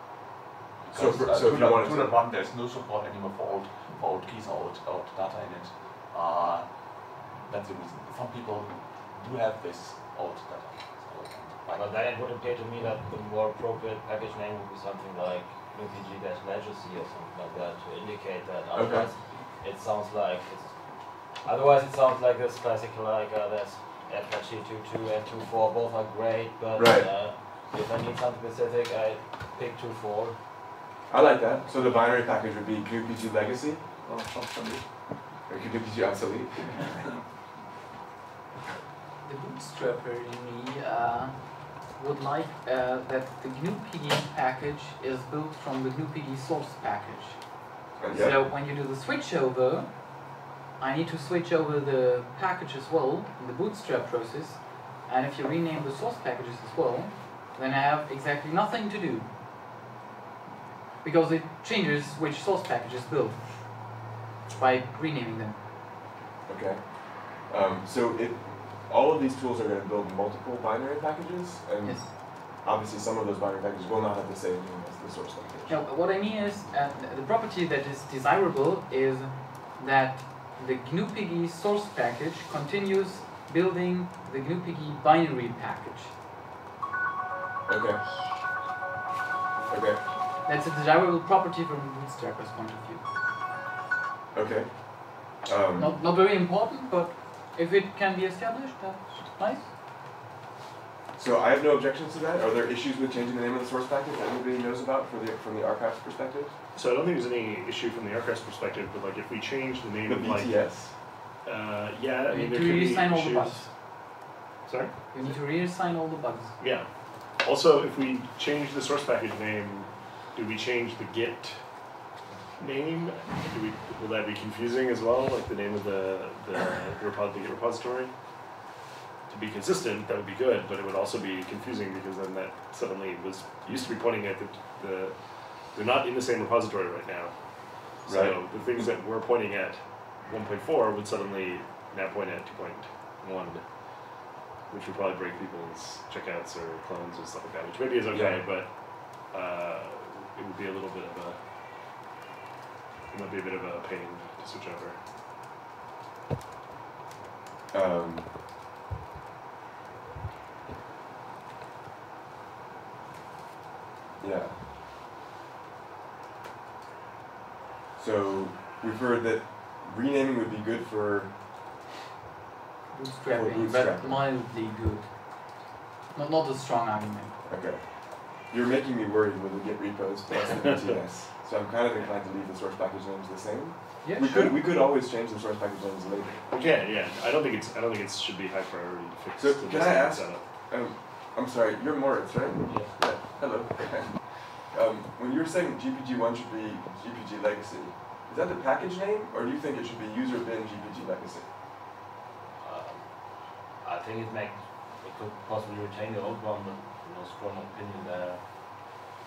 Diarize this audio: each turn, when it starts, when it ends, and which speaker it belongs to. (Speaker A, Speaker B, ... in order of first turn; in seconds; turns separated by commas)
Speaker A: 0.8-12.0, Speaker B: 0.9-2.2, Speaker C: 11.7-30.4, Speaker B: 18.7-19.1, Speaker B: 26.8-27.1, Speaker B: 31.1-33.8, Speaker A: 34.0-34.9, Speaker B: 35.5-37.1, Speaker D: 39.2-59.3, Speaker B: 48.0-48.5, Speaker D: 61.0-63.9, Speaker D: 64.5-65.6, Speaker B: 66.5-75.8, Speaker D: 71.8-72.1, Speaker D: 75.7-86.1, Speaker B: 87.7-88.0, Speaker B: 89.7-90.0, Speaker D: 90.4-93.1, Speaker B: 94.3-96.0, Speaker D: 95.8-99.7, Speaker B: 101.2-106.5, Speaker E: 106.7-113.8, Speaker B: 110.1-110.9, Speaker D: 112.3-113.7, Speaker E: 114.7-115.3, Speaker D: 115.1-116.6, Speaker E: 116.6-121.6, Speaker E: 122.6-128.1, Speaker E: 129.3-143.8, Speaker B: 138.1-138.4, Speaker E: 144.7-151.4, Speaker B: 148.1-148.4, Speaker E: 153.1-155.0, Speaker B: 157.7-158.3, Speaker B: 164.2-164.6, Speaker B: 167.9-171.4, Speaker D: 172.9-175.6, Speaker B: 173.3-174.3, Speaker D: 176.1-177.4, Speaker B: 177.5-186.4, Speaker D: 184.0-184.6, Speaker E: 186.3-190.4, Speaker B: 189.4-201.5, Speaker C: 192.6-192.9, Speaker C: 202.6-209.0